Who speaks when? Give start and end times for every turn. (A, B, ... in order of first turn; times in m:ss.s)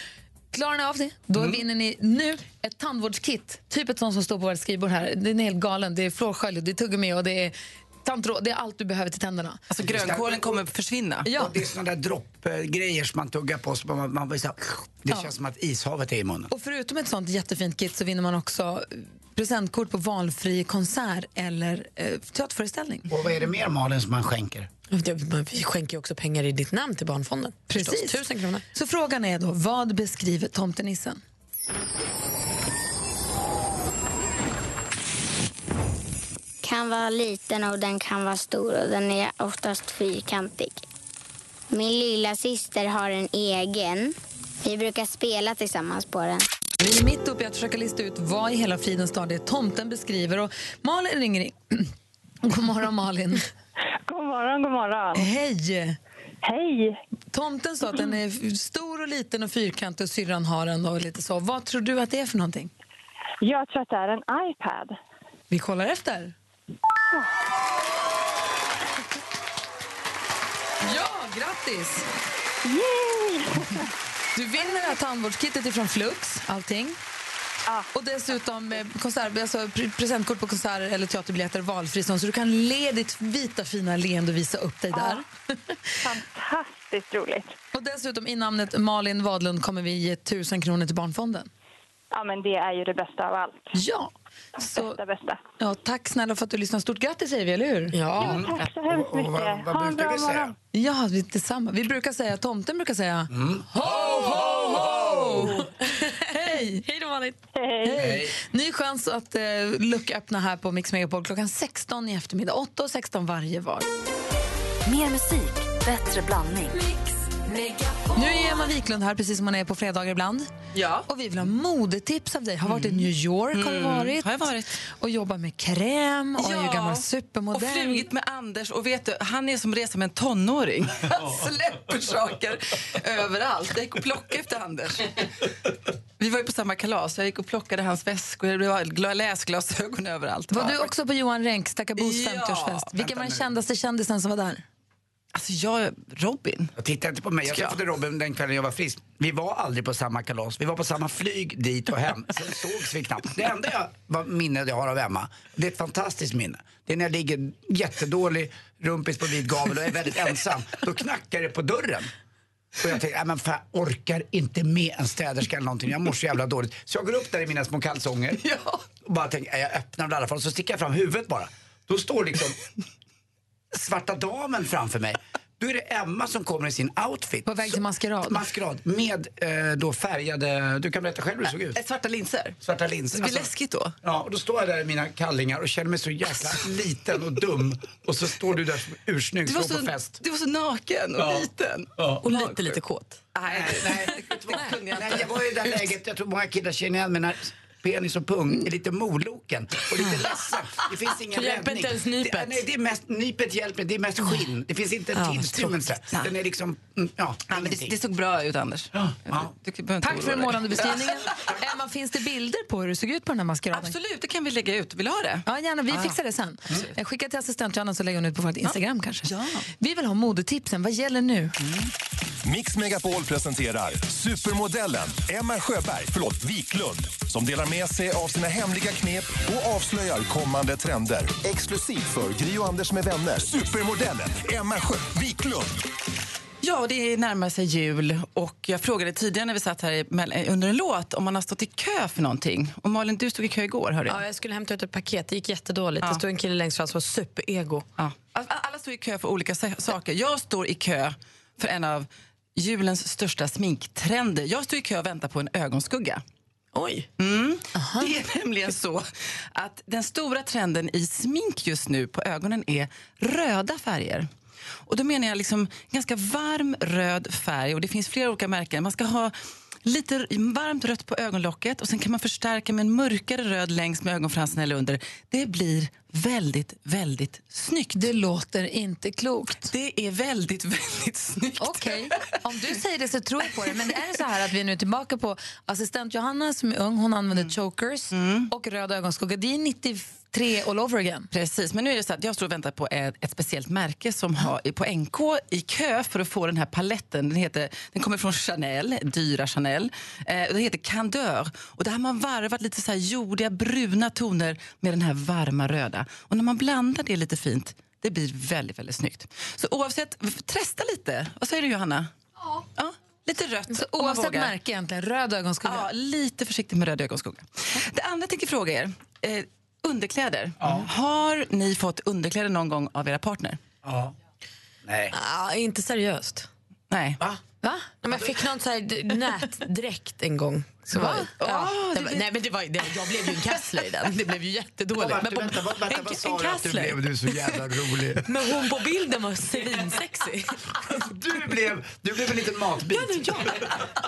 0:00.5-0:09.6 A
0:01.3-0:01.6 B
0:09.7-0:11.3 C
0:09.8-0:10.7 B
0:11.2-0:11.5 A
0:11.3-0:16.5 B
0:16.5-0:23.1 A
0:23.1-0:24.7 B
0:24.9-0:28.6 D
0:27.7-0:31.2 A
0:36.6-0:40.8 E
0:41.7-0:44.1 E
0:44.6-0:46.4 E
0:46.8-0:51.9 A
0:52.4-0:53.4 A
0:54.1-0:55.3 F
0:55.1-0:56.0 A
0:56.4-0:57.0 F
0:57.3-1:02.7 A
1:03.4-1:04.9 F
1:05.5-1:06.3 A
1:10.8-1:12.0 A
1:12.6-1:13.4 F
1:14.4-1:17.0 A
1:17.9-1:25.7 A
1:24.9-1:25.2 F
1:26.0-1:27.5 F
1:27.7-1:31.5 A
1:32.1-1:33.7 F
1:33.7-1:35.0 A
1:34.6-1:35.4 F
1:35.6-1:38.0 A
1:37.9-1:38.4 D
1:38.2-1:40.5 B
1:38.3-1:40.5 F
1:40.7-1:45.7 A
1:43.3-1:45.5 B
1:45.3-1:46.1 D
1:46.3-1:46.8 A
1:46.7-1:47.4 D
1:47.8-1:53.8 A
1:48.0-1:48.3 B
1:54.8-1:58.6 G
1:58.1-2:00.5 A
2:00.7-2:01.0 C
2:01.0-2:08.1 A
2:02.6-2:04.7 C
2:06.4-2:15.2 C
2:11.4-2:11.7 A
2:16.2-2:20.9 C
2:20.5-2:24.6 A
2:22.0-2:22.9 C
2:22.9-2:23.5 B
2:25.3-2:26.7 C
2:26.8-2:42.1 B
2:27.4-2:27.8 C
2:42.8-2:48.4 B
2:48.4-2:48.8 A
2:49.0-2:52.6 B
2:53.7-3:01.8 B
2:57.4-2:58.4 A
3:01.6-3:02.6 C
3:02.6-3:03.5 B
3:03.1-3:03.9 C
3:04.0-3:10.2 B
3:09.4-3:12.8 C
3:11.2-3:12.2 B
3:12.2-3:13.2 D
3:13.3-3:15.8 C
3:13.5-3:28.0 B
3:21.3-3:22.6 D
3:25.1-3:25.7 D
3:27.5-3:31.5 C
3:28.9-3:29.5 B
3:30.0-3:34.0 A
3:33.7-3:36.2 C
3:35.4-3:41.5 A
3:38.6-3:39.6 C
3:42.4-3:55.7 H
3:56.6-4:04.2 C
4:04.0-4:07.8 D
4:08.0-4:16.2 C
4:16.7-4:17.1 D
4:17.2-4:24.3 C
4:17.7-4:18.1 A
4:24.9-4:38.1 C
4:37.9-4:39.7 A
4:39.6-4:42.3 C
4:41.6-4:51.3 A
4:48.1-4:48.5 C
4:51.3-5:12.1 C
5:12.8-5:14.5 C
5:13.7-5:15.9 A
5:15.6-5:23.6 C
5:20.6-5:20.9 B
5:23.8-5:24.1 B
5:24.8-5:25.1 B
5:25.1-5:26.5 D
5:26.9-5:27.2 C
5:27.6-5:27.9 A
5:28.0-5:37.5 D
5:30.9-5:32.3 C
5:31.0-5:31.3 A
5:33.0-5:33.6 C
5:35.0-5:38.2 B
5:38.2-5:40.6 D
5:40.9-5:43.7 B
5:42.9-5:43.7 D